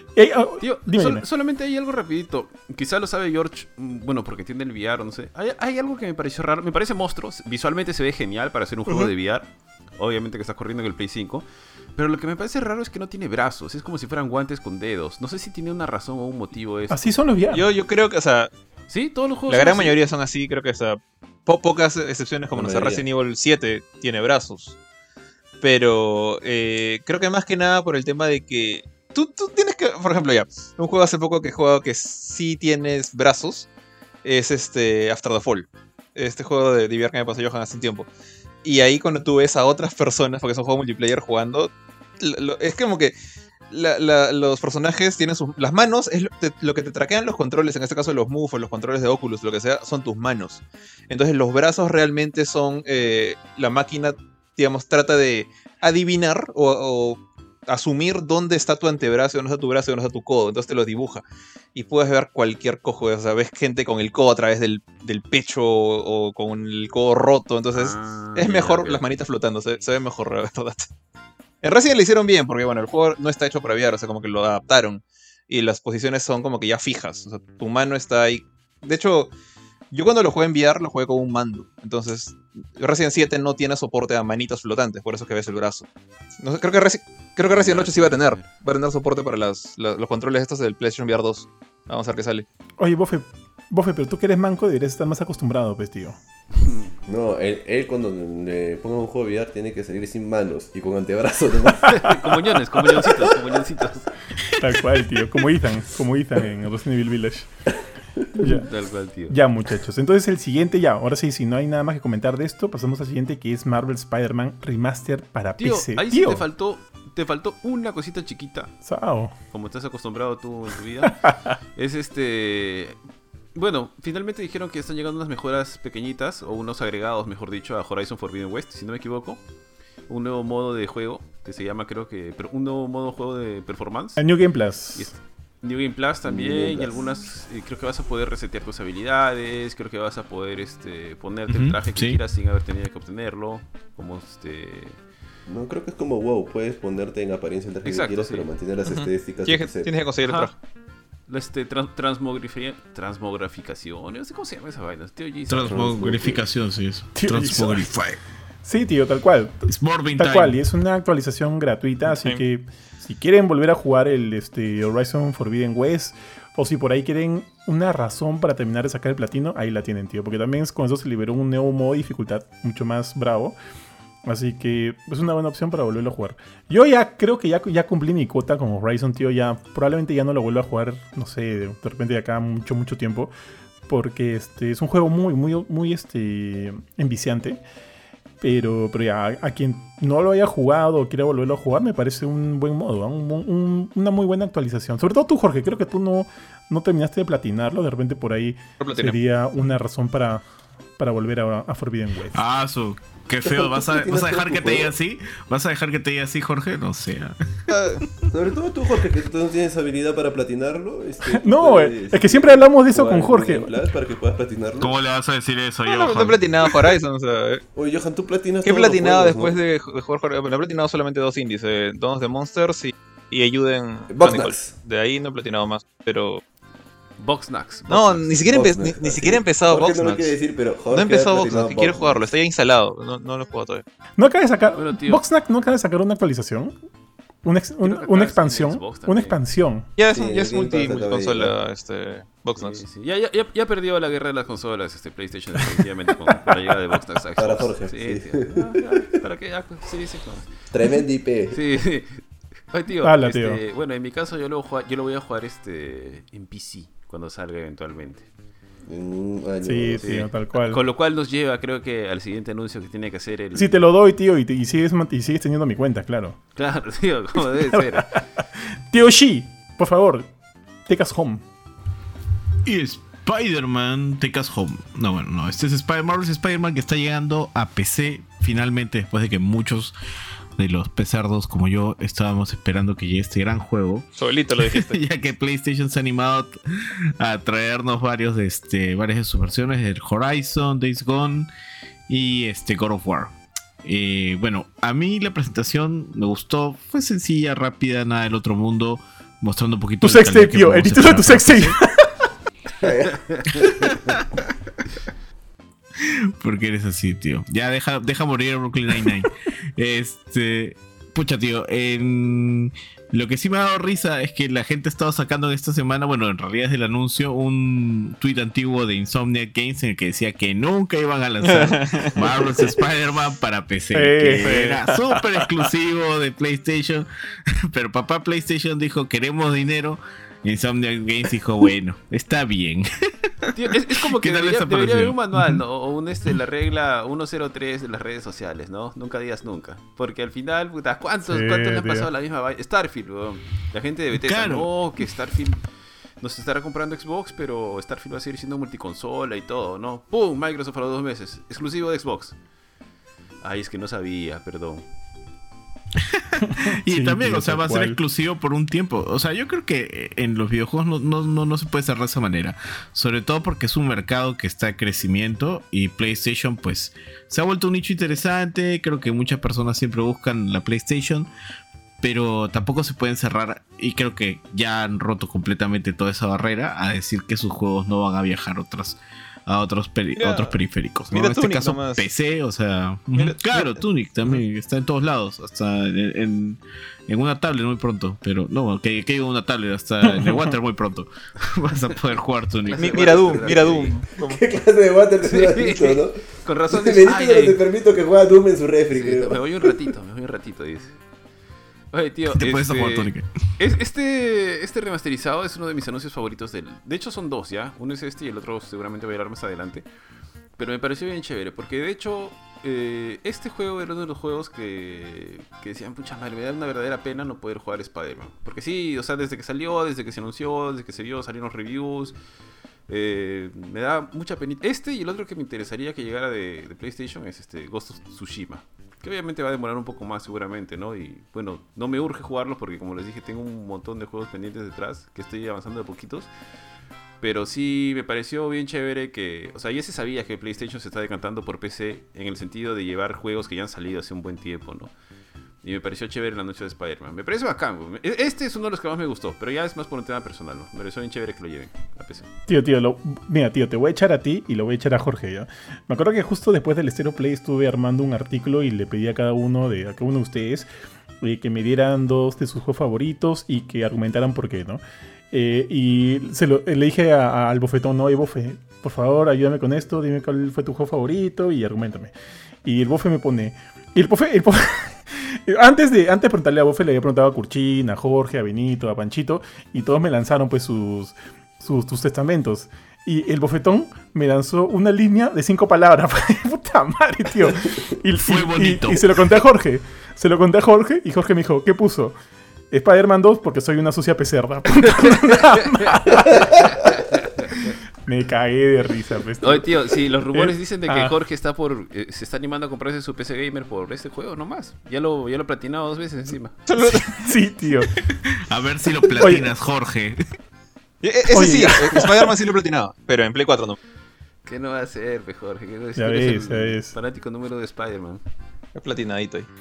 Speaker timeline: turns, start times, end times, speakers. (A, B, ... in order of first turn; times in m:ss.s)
0:00.2-0:01.2 A
0:00.6-0:11.4 B
0:12.0-0:17.1 B
0:16.9-0:17.7 A
0:17.5-0:18.5 C
0:18.9-0:20.0 B
0:19.5-0:24.8 C
0:22.5-0:23.0 D
0:25.6-0:33.7 C
0:34.2-0:38.1 C
0:38.6-0:43.1 C
0:43.7-1:01.2 C
1:01.8-1:10.9 C
1:07.7-1:09.0 B
1:11.6-1:19.3 C
1:19.9-1:25.9 C
1:26.4-1:32.5 C
1:27.5-1:28.5 B
1:32.8-1:36.2 A
1:36.6-1:36.9 B
1:37.1-1:42.2 D
1:41.8-1:44.1 B
1:43.0-1:43.4 D
1:44.6-1:47.5 A
1:48.2-1:48.6 D
1:48.4-1:48.7 A
1:48.4-1:49.4 B
1:49.3-1:56.4 A
1:55.6-1:58.7 B
1:58.8-1:59.3 A
1:59.5-2:01.2 B
2:01.1-2:01.5 A
2:01.8-2:03.0 B
2:03.6-2:09.4 B
2:10.1-2:14.2 B
2:14.2-2:15.1 A
2:15.0-2:25.0 B
2:16.2-2:17.0 D
2:21.5-2:22.2 E
2:25.5-2:29.9 D
2:27.8-2:28.5 B
2:28.8-2:30.6 C
2:30.2-2:30.5 B
2:31.3-2:35.9 B
2:35.5-2:38.2 E
2:35.6-2:36.4 D
2:37.2-2:37.9 A
2:38.6-2:53.6 A
2:39.7-2:40.6 E
2:42.1-2:42.4 C
2:54.3-3:03.3 A
3:03.9-3:07.6 A
3:08.4-3:20.4 A
3:18.8-3:19.2 C
3:21.0-3:22.4 A
3:22.3-3:28.3 E
3:23.4-3:24.9 D
3:27.7-3:28.0 C
3:28.3-3:35.0 D
3:31.3-3:33.7 A
3:34.8-3:36.9 E
3:35.8-3:37.6 C
3:37.7-3:39.6 D
3:38.6-3:46.4 C
3:44.1-3:44.7 D
3:47.2-3:48.4 B
3:47.9-3:50.3 C
3:48.5-3:52.2 D
3:50.9-3:53.8 C
3:54.2-3:56.7 A
3:54.8-3:55.2 B
3:57.4-3:59.9 A
3:57.8-3:59.4 B
4:00.0-4:02.8 C
4:00.1-4:01.5 D
4:02.6-4:10.5 B
4:07.4-4:08.6 D
4:10.7-4:11.6 D
4:11.5-4:18.3 B
4:13.0-4:13.6 A
4:18.9-4:20.1 D
4:19.6-4:20.8 A
4:20.0-4:23.9 B
4:23.6-4:26.4 A
4:26.6-4:28.2 B
4:27.7-4:30.3 A
4:30.9-4:31.4 A
4:32.6-4:39.9 E
4:40.6-4:46.6 E
4:44.2-4:45.0 C
4:47.2-4:51.5 E
4:52.1-5:01.8 E
5:00.0-5:02.1 A
5:02.8-5:04.0 D
5:03.6-5:04.3 E
5:06.0-5:27.1 E
5:21.4-5:22.7 C
5:23.9-5:25.2 A
5:24.3-5:24.9 C
5:27.7-5:35.6 E
5:33.5-5:45.6 B
5:41.3-5:42.1 A
5:44.1-5:45.0 E
5:46.2-5:52.4 B
5:53.4-5:54.9 B
5:56.1-6:11.3 E
5:56.5-5:58.0 A
6:12.0-6:33.1 E
6:20.2-6:20.5 C
6:21.1-6:22.1 C
6:23.2-6:23.8 C
6:30.0-6:30.5 A
6:32.1-6:34.0 B
6:32.8-6:34.4 C
6:34.2-6:39.8 D
6:35.2-6:37.6 B
6:38.9-6:41.0 B
6:41.9-6:49.9 B
6:42.3-6:43.4 E
6:50.6-7:02.2 B
7:02.9-7:16.3 B
7:17.2-7:24.9 B
7:25.6-7:32.3 B
7:32.5-7:40.7 A
7:41.2-7:52.1 A
7:52.6-8:12.2 A
8:08.2-8:09.2 E
8:12.7-8:16.9 A
8:15.5-8:17.8 B
8:18.0-8:19.8 A
8:19.4-8:26.6 B
8:20.3-8:21.2 A
8:26.7-8:27.3 C
8:27.1-8:27.9 A
8:28.3-8:30.2 E
8:29.2-8:29.5 A
8:31.0-8:33.8 C
8:31.3-8:32.1 A
8:34.4-8:38.2 B
8:36.0-8:36.9 A
8:38.8-8:39.5 C